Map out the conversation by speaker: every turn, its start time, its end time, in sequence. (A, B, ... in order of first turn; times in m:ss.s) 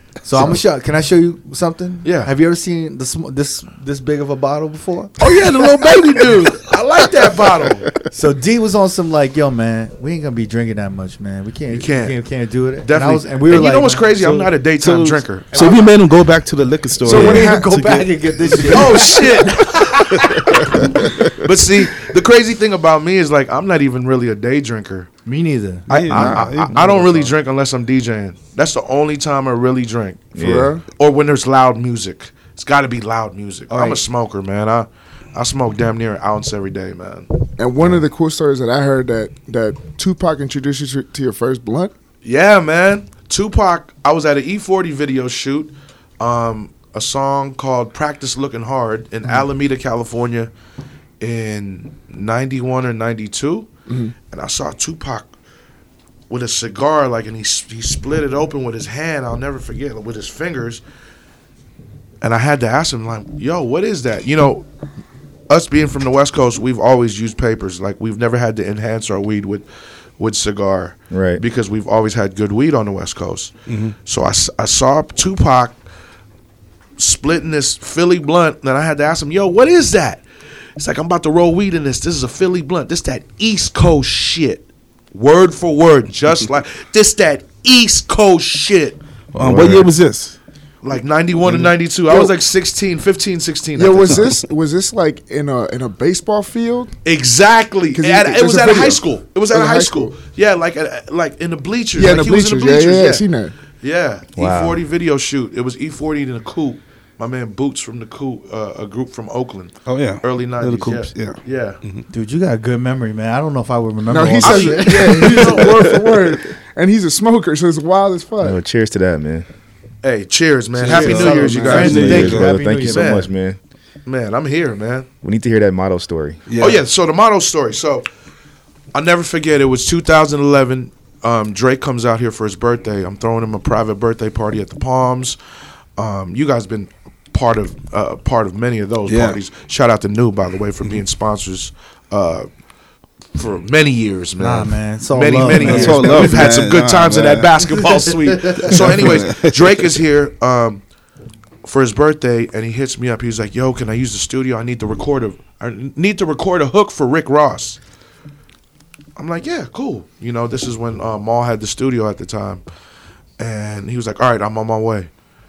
0:00.2-0:05.2 A
0:02.0-0:02.3 B
0:05.2-0:07.9 B
0:08.0-0:14.5 A
0:11.7-0:12.2 B
0:12.8-0:15.5 B
0:14.3-0:18.1 C
0:15.5-0:15.9 A
0:17.0-0:21.0 A
0:17.0-0:17.7 D
0:18.7-0:25.1 B
0:18.8-0:19.2 D
0:25.3-0:25.9 A
0:25.9-0:27.3 C
0:25.9-0:37.3 B
0:26.0-0:26.8 E
0:30.4-0:30.7 E
0:30.4-0:30.8 D
0:33.7-0:34.0 A
0:37.6-0:41.9 D
0:42.2-0:50.5 B
0:51.2-0:53.7 B
0:53.9-0:54.1 D
0:54.3-0:55.3 B
0:56.3-1:00.8 B
1:02.2-1:04.7 B
1:05.5-1:09.6 B
1:10.2-1:13.5 B
1:11.1-1:11.4 E
1:13.7-1:14.0 C
1:14.0-1:15.8 B
1:17.0-1:20.2 B
1:20.8-1:29.0 B
1:29.3-1:30.4 C
1:29.4-1:29.8 E
1:30.8-1:34.4 B
1:32.1-1:32.4 D
1:33.8-1:36.9 D
1:37.0-1:43.2 B
1:37.9-1:40.1 D
1:42.0-1:43.5 D
1:43.8-1:51.8 B
1:44.4-1:44.8 E
1:49.9-1:52.0 C
1:52.1-1:55.8 A
1:54.1-1:58.6 D
1:54.4-1:56.0 B
1:58.4-1:59.5 E
2:00.0-2:03.3 B
2:00.8-2:02.6 C
2:00.8-2:02.0 D
2:00.9-2:03.2 A
2:01.8-2:03.6 E
2:04.0-2:05.1 B
2:05.2-2:06.4 E
2:06.5-2:06.8 C
2:06.6-2:08.1 B
2:08.9-2:15.4 B
2:16.0-2:22.5 B
2:19.1-2:19.4 C
2:23.4-2:30.8 B
2:24.4-2:26.4 A
2:25.5-2:27.6 C
2:28.4-2:28.8 A
2:28.6-2:29.8 C
2:31.6-2:37.8 B
2:39.2-2:42.6 B
2:43.4-2:45.1 B